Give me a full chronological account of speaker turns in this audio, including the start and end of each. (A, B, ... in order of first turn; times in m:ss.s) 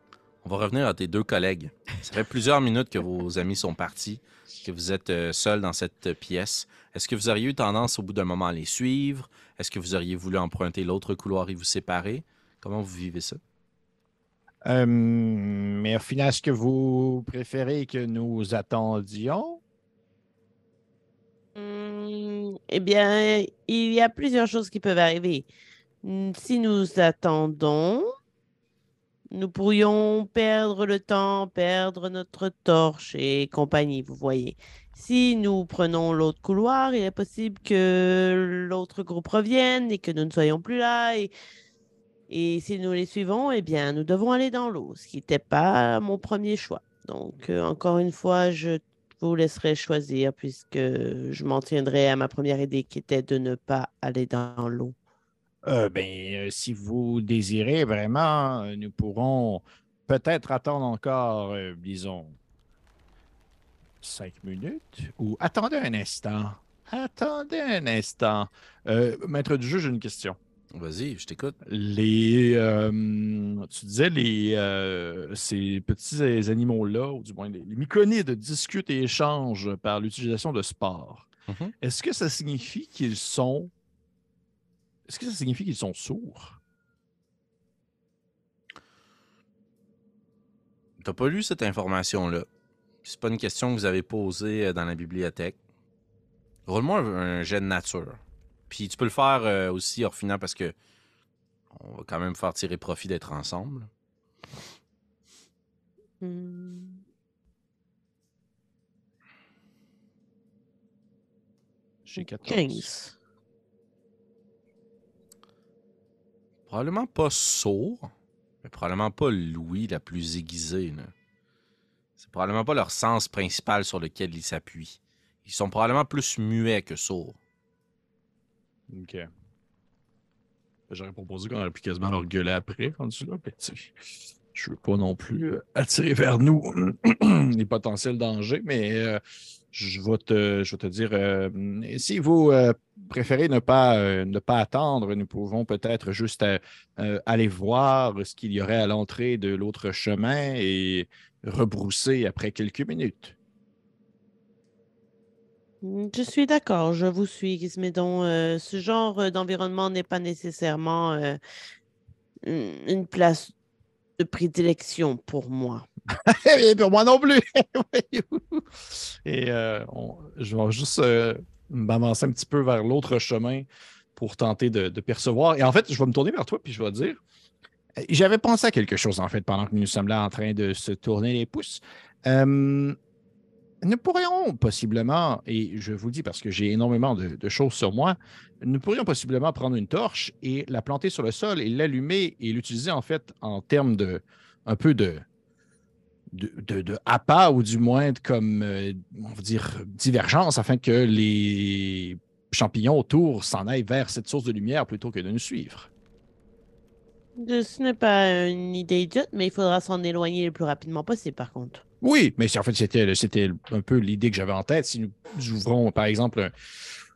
0:00.4-0:13.4 A
0:14.6-0:19.6 B
0:21.6-0:25.5 C
0:26.0-0:28.1 C
0:29.3-0:41.3 C
0:42.3-0:55.0 C
0:55.6-1:02.4 B
1:04.0-1:10.4 B
1:10.7-1:11.6 A
1:11.6-1:21.3 B
1:21.5-1:21.7 A
1:21.8-1:23.7 B
1:25.1-1:26.6 B
1:31.0-1:32.4 A
1:33.0-1:35.6 A
1:36.7-1:40.7 A
1:41.7-1:43.9 A
1:46.2-1:47.0 C
1:52.0-1:52.9 B
1:52.2-1:53.1 C
1:56.7-1:58.1 A
1:58.6-2:01.1 A
2:02.2-2:07.4 A
2:08.9-2:09.3 B
2:10.9-2:14.0 B
2:14.5-2:19.2 B
2:19.7-2:33.3 B
2:35.8-2:41.4 C
2:42.4-2:43.5 C
2:44.2-2:45.8 C
2:46.1-2:57.2 B
2:58.0-3:03.0 B
3:03.8-3:15.2 B
3:16.3-3:25.9 B
3:27.4-3:31.8 C
3:32.0-3:37.0 B